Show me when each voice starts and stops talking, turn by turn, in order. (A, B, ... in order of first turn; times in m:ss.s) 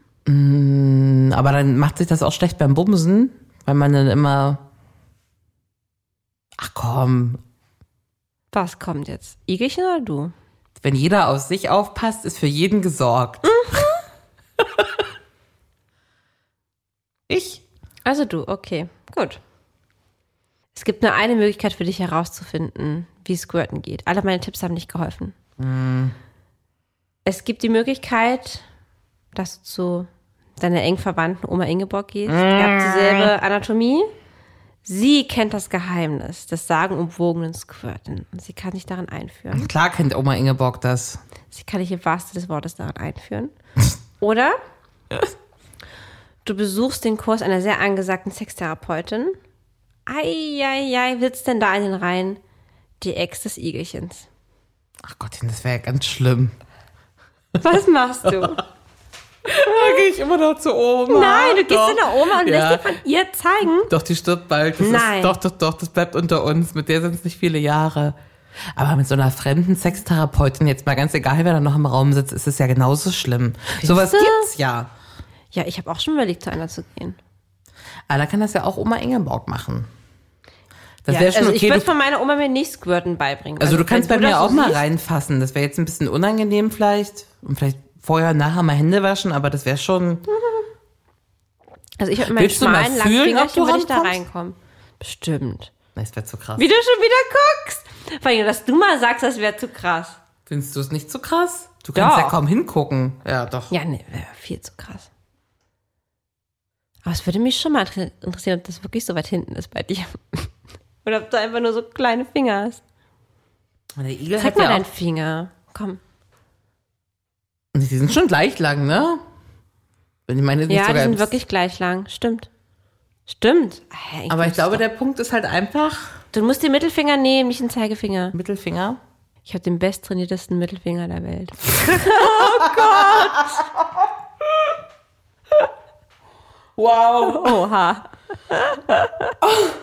0:00.2-0:04.6 A
0:06.6-0:07.4 A
0:08.5-0:10.3 B
0:10.8-0:13.8 A
0:13.5-0:13.9 B
0:17.3-0:17.6 A
0:18.0-0:19.4 B
0:20.7-0:25.4 B
0:25.6-0:26.1 A
0:27.2-0:28.6 B
0:29.3-0:34.1 B
0:32.3-0:33.3 A
0:34.8-0:39.7 B
0:39.5-0:41.2 A
0:41.5-0:43.5 B
0:44.2-0:44.6 B
0:46.4-0:49.4 B
0:50.1-0:52.4 B
0:53.0-0:54.3 B
0:55.0-0:56.6 A
0:57.6-0:58.6 B
0:59.4-1:03.0 A
1:01.1-1:03.9 B
1:03.9-1:08.2 A
1:04.8-1:05.4 B
1:08.7-1:14.9 A
1:13.8-1:14.5 B
1:15.5-1:17.2 B
1:18.1-1:19.9 A
1:21.0-1:21.9 A
1:21.1-1:24.8 B
1:23.6-1:30.2 A
1:30.3-1:30.6 B
1:32.0-1:35.7 B
1:32.3-1:34.2 A
1:35.9-1:36.6 A
1:36.6-1:40.2 B
1:40.5-1:43.7 A
1:41.9-1:42.4 B
1:43.7-1:45.1 B
1:47.0-1:50.5 B
1:51.0-1:52.8 B
1:54.0-1:54.9 A
1:54.4-1:56.0 B
1:57.7-1:59.2 A
2:00.3-2:01.3 A
2:00.7-2:02.5 B
2:03.3-2:04.8 B
2:04.3-2:06.2 A
2:06.3-2:08.3 B
2:08.3-2:09.0 A
2:09.4-2:13.6 B
2:11.8-2:13.6 A
2:16.8-2:17.6 A
2:17.2-2:19.4 B